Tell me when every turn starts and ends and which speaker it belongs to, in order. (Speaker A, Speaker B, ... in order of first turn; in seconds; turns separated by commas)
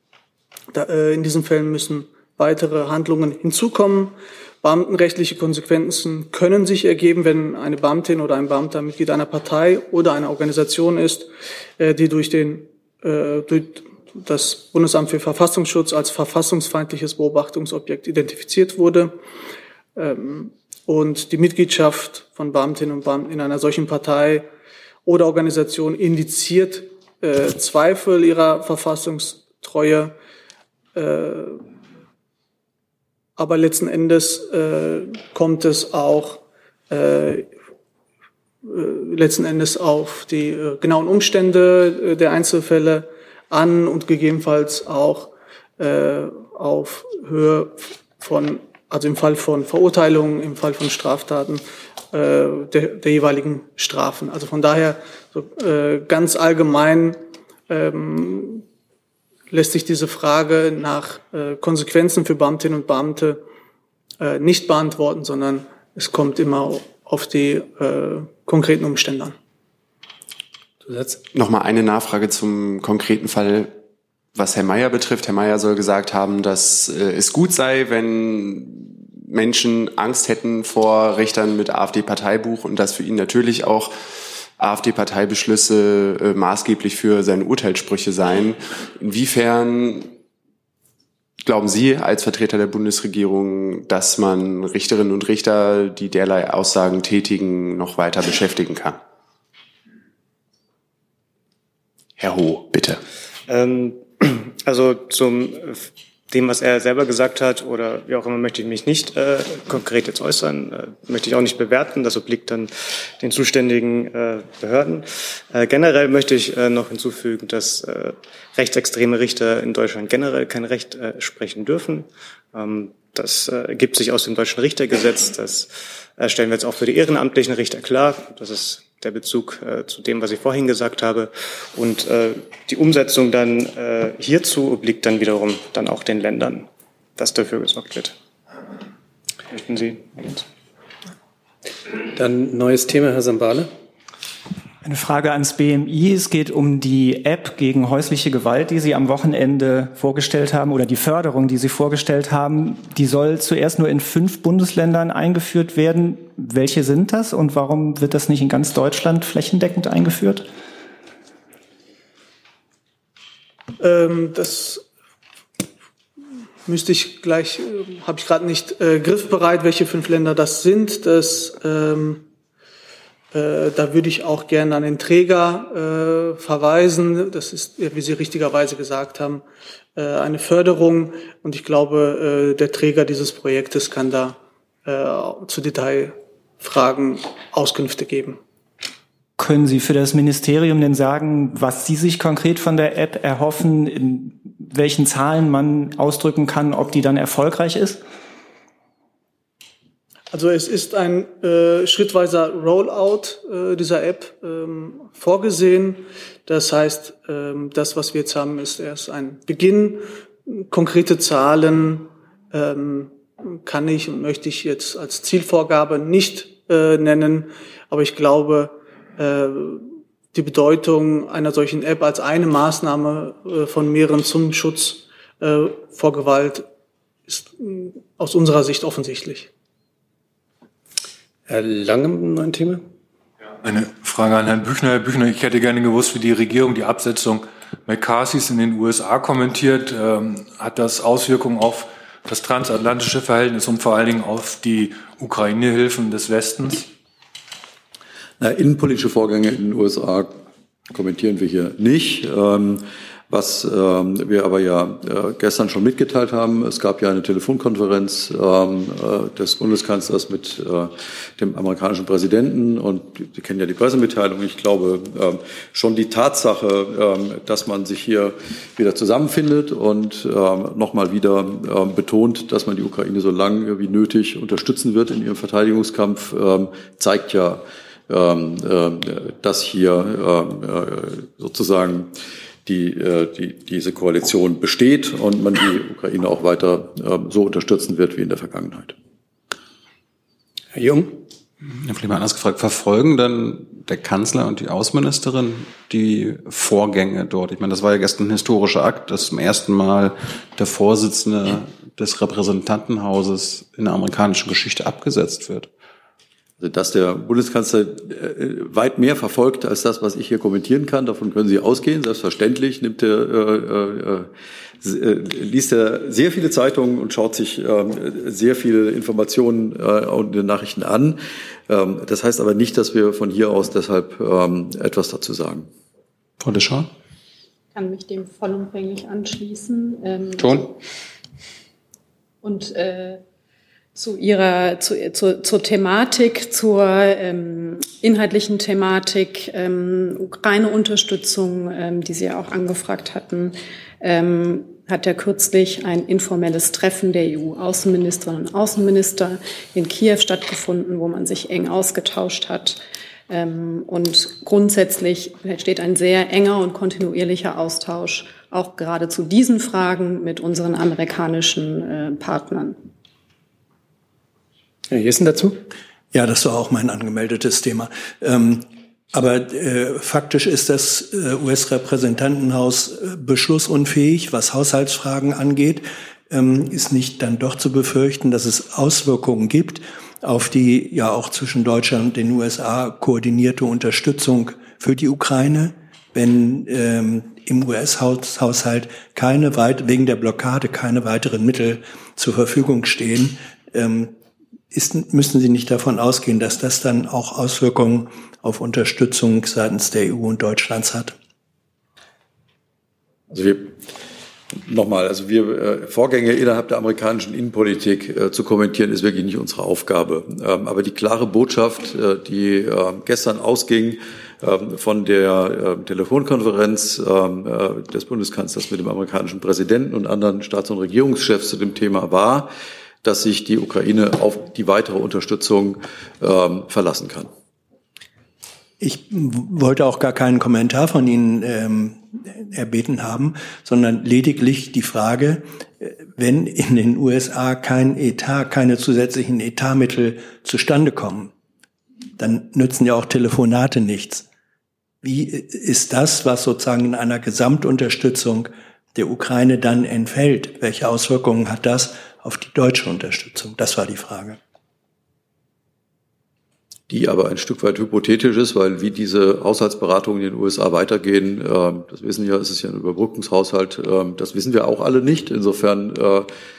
Speaker A: 0.7-19.2, Speaker A: 20.0-24.5, Speaker A: 25.1-30.1, Speaker A: 30.9-31.6, Speaker A: 33.4-37.5, Speaker A: 38.6-58.6, Speaker A: 59.5-63.4, Speaker A: 64.2-69.3, Speaker B: 70.8-71.2, Speaker C: 71.3-73.8, Speaker C: 74.3-83.9, Speaker C: 84.5-90.1, Speaker C: 91.4-99.0, Speaker C: 102.2-103.0, Speaker D: 103.5-138.2, Speaker D: 139.5-140.5, Speaker B: 142.1-143.7, Speaker E: 144.8-160.5, Speaker A: 163.8-164.8, Speaker A: 166.7-172.3, Speaker A: 173.3-179.4, Speaker A: 180.0-188.4, Speaker E: 189.4-198.0, Speaker A: 200.3-226.7, Speaker A: 227.3-229.5, Speaker B: 231.5-232.8, Speaker F: 233.6-246.9, Speaker G: 248.4-250.4, Speaker G: 250.9-282.1, Speaker G: 282.6-288.9, Speaker B: 290.7-291.2, Speaker H: 291.7-305.7, Speaker G: 306.6-314.3, Speaker G: 314.8-325.7, Speaker H: 326.4-326.9, Speaker I: 327.8-330.7, Speaker H: 330.4-330.7, Speaker I: 332.4-333.2, Speaker I: 333.9-362.8, Speaker B: 364.9-365.6, Speaker J: 366.1-394.1, Speaker J: 394.7-401.1, Speaker G: 403.3-403.8, Speaker G: 404.6-422.5, Speaker G: 423.0-427.3, Speaker J: 428.8-441.3, Speaker J: 442.2-444.2, Speaker J: 445.0-454.4, Speaker G: 456.9-466.3